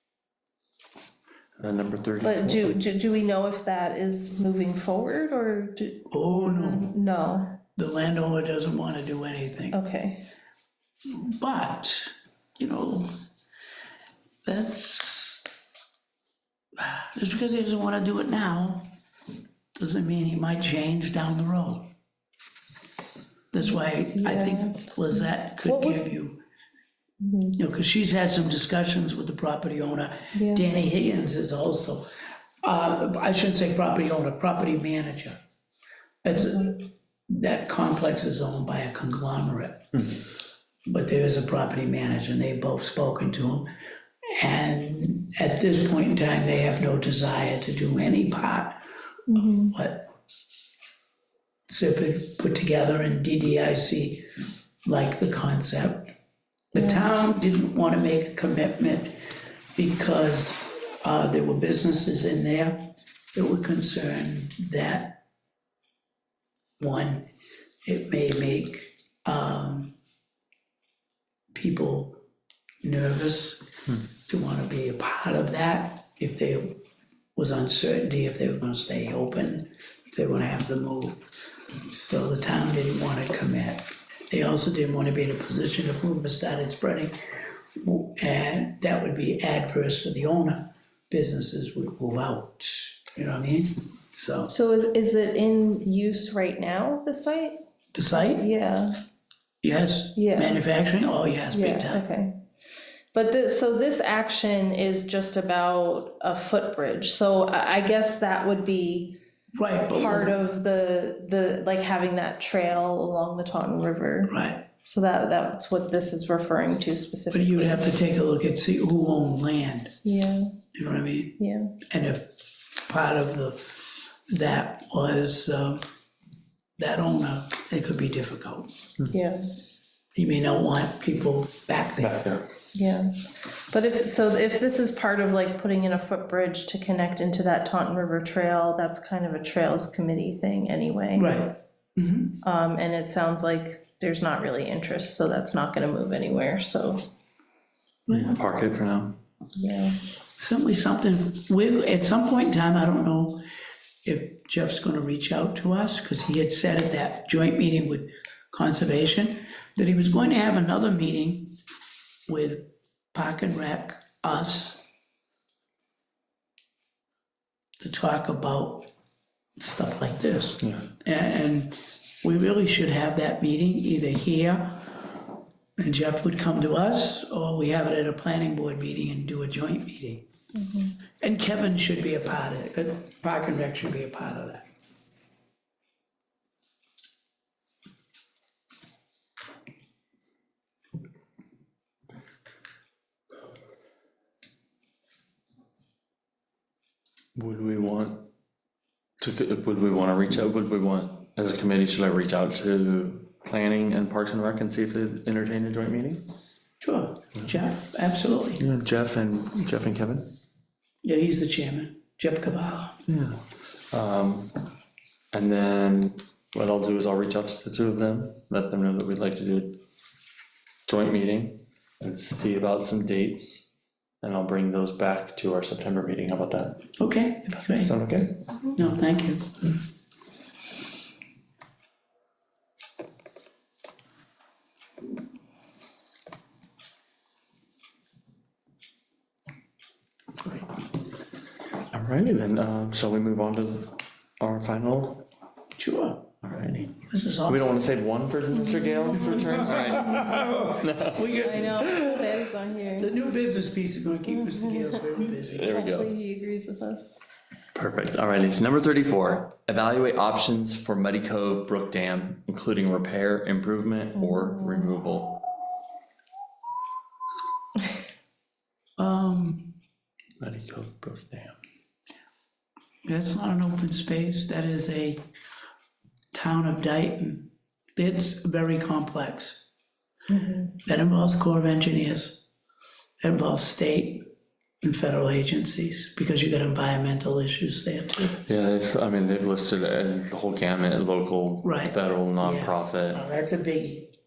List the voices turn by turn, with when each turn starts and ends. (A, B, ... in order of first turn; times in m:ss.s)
0:01.6-0:02.8 A
0:02.2-0:07.6 B
0:06.1-0:06.9 C
0:07.8-0:09.8 C
0:09.7-0:10.3 B
0:11.1-0:13.2 C
0:14.4-0:15.4 C
0:16.8-0:18.9 C
0:19.8-0:21.9 C
0:23.5-0:26.4 C
0:23.6-0:26.1 B
0:27.2-0:27.6 B
0:27.6-0:32.1 C
0:30.3-0:30.7 B
0:32.6-0:35.4 C
0:36.2-0:40.1 C
0:40.8-0:43.7 C
0:44.4-0:48.7 C
0:49.3-0:49.8 B
0:49.7-0:50.1 C
0:51.7-0:54.3 C
0:54.8-0:56.1 C
0:56.7-1:05.2 C
0:56.7-0:57.1 B
1:06.8-1:07.3 C
1:07.8-1:09.9 C
1:11.5-1:12.2 C
1:12.8-1:13.6 C
1:14.2-1:16.8 C
1:17.4-1:21.2 C
1:21.9-1:27.1 C
1:27.8-1:34.5 C
1:34.5-1:39.0 B
1:37.9-1:38.5 C
1:39.6-1:42.0 C
1:40.2-1:40.6 B
1:41.5-1:42.4 B
1:43.1-1:49.2 B
1:49.5-1:50.4 C
1:49.9-1:57.9 B
1:54.3-1:54.6 C
1:57.3-1:59.9 C
2:00.0-2:00.5 B
2:00.7-2:03.7 C
2:01.4-2:01.7 B
2:04.3-2:05.8 C
2:06.8-2:08.8 C
2:09.1-2:09.4 B
2:10.1-2:12.2 C
2:12.0-2:12.5 A
2:12.7-2:21.3 B
2:21.2-2:22.4 C
2:22.4-2:27.0 B
2:28.1-2:29.2 A
2:28.1-2:28.4 B
2:29.6-2:30.0 B
2:30.4-2:33.4 C
2:34.0-2:41.6 C
2:42.3-2:44.8 C
2:47.8-2:48.9 C
2:49.6-2:55.1 C
2:50.6-2:50.9 A
2:55.8-3:00.2 C
3:00.5-3:01.0 B
3:01.2-3:04.7 C
3:17.4-3:18.3 A
3:19.2-3:26.3 A
3:26.8-3:28.6 C
3:28.6-3:30.4 A
3:31.0-3:33.0 C
3:33.1-3:34.6 A
3:35.3-3:39.8 A
3:40.8-3:43.7 A
3:44.2-3:46.8 A
3:47.0-3:47.9 C
3:47.8-3:48.8 A
3:48.7-3:49.7 C
4:01.9-4:05.2 A
4:05.8-4:06.3 C
4:06.4-4:11.3 A
4:07.0-4:07.8 C
4:08.5-4:10.6 B
4:09.2-4:12.4 C
4:11.4-4:13.1 B
4:13.0-4:15.7 C
4:14.3-4:17.1 B
4:15.4-4:16.1 A
4:17.7-4:25.4 A
4:24.2-4:25.0 B
4:29.0-4:29.8 C
4:30.4-4:31.6 A
4:33.0-4:35.2 C
4:36.3-4:39.7 C
4:40.3-4:40.8 B
4:40.8-4:42.4 C
4:43.2-4:44.3 C
4:44.8-4:48.4 C
4:48.3-4:53.2 A
4:51.6-4:54.1 C